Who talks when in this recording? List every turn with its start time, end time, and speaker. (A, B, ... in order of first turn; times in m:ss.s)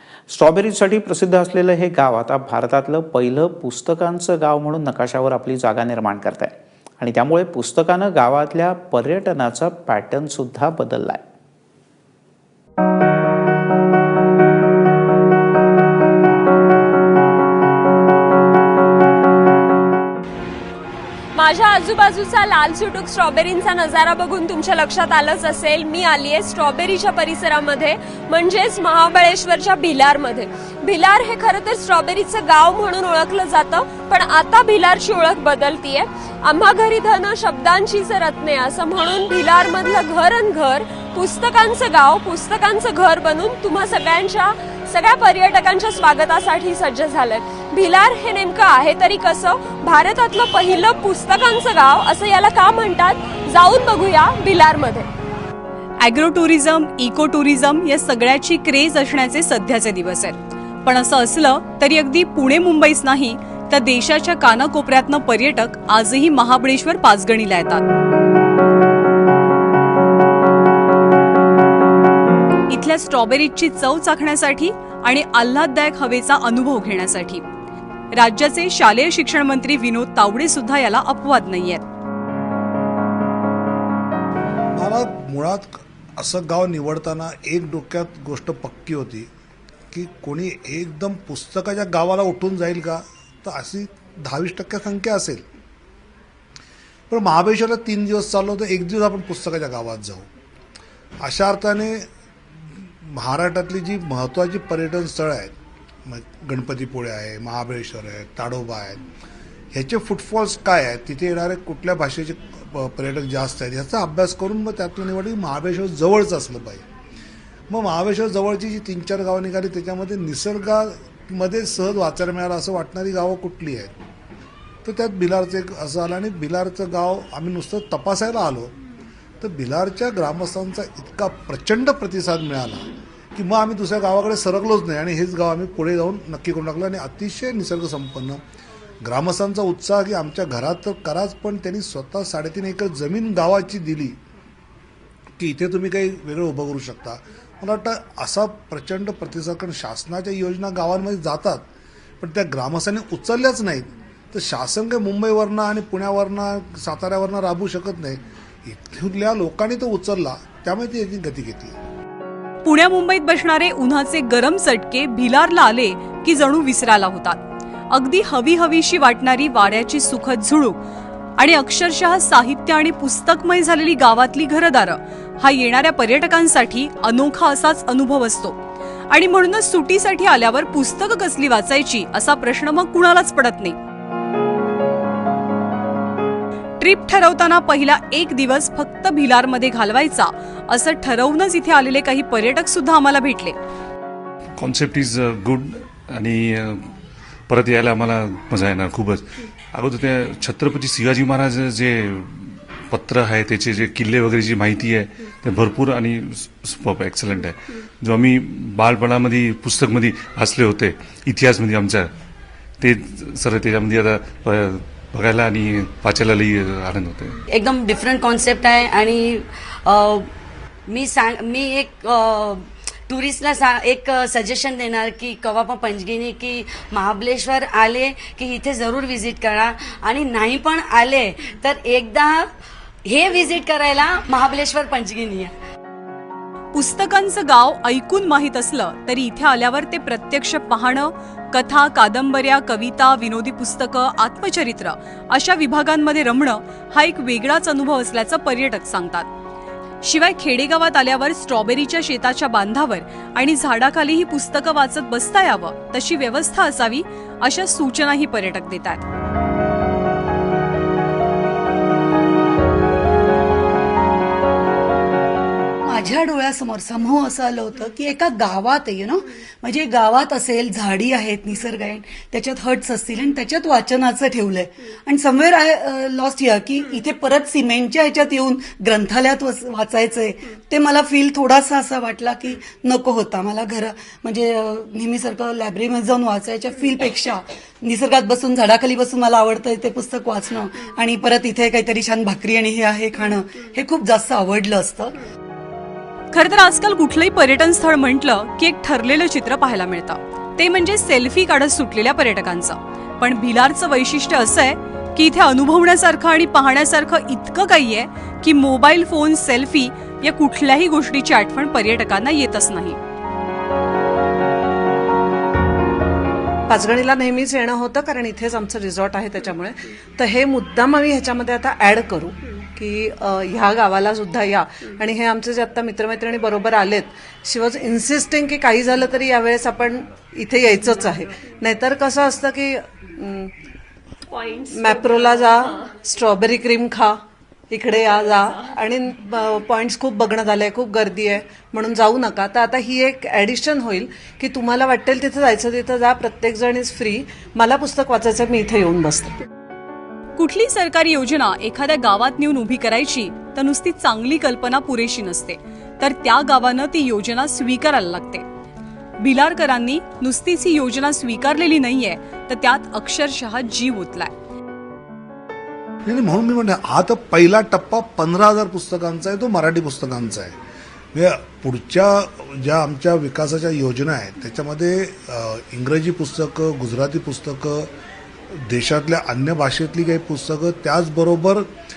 0:00.3-0:11.2 A
0:21.4-0:55.1 B
0:56.0-1:07.8 C
1:12.7-1:17.4 C
1:18.2-1:21.8 C
1:24.8-1:29.3 D
1:29.9-1:35.5 D
1:37.1-1:40.3 D
1:41.2-1:42.1 D
1:43.0-1:45.6 D
1:46.1-1:49.0 D
1:49.7-1:56.8 D
1:57.7-2:04.0 D
2:04.8-2:08.7 D
2:09.4-2:18.4 D
2:19.0-2:24.2 D
2:25.4-2:31.7 D
2:32.2-2:41.8 D
2:42.6-2:47.4 C
2:47.9-2:50.8 C
2:51.4-2:58.6 C
2:59.1-3:03.8 C
3:06.8-3:13.6 C
3:14.6-3:16.9 E
3:17.5-3:32.1 E
3:32.8-3:37.4 E
3:37.5-3:40.3 F
3:40.9-3:52.4 F
3:53.1-3:55.5 F
3:56.8-4:09.3 C
4:10.0-4:19.0 C
4:25.9-4:55.2 G
4:56.3-5:13.0 C
5:16.7-5:33.5 H
5:34.3-5:35.5 B
5:34.7-5:37.2 H
5:37.7-5:49.3 H
5:50.4-5:58.4 C
5:59.2-6:04.3 C
6:06.1-6:10.5 D
6:11.1-6:17.9 D
6:18.5-6:21.7 D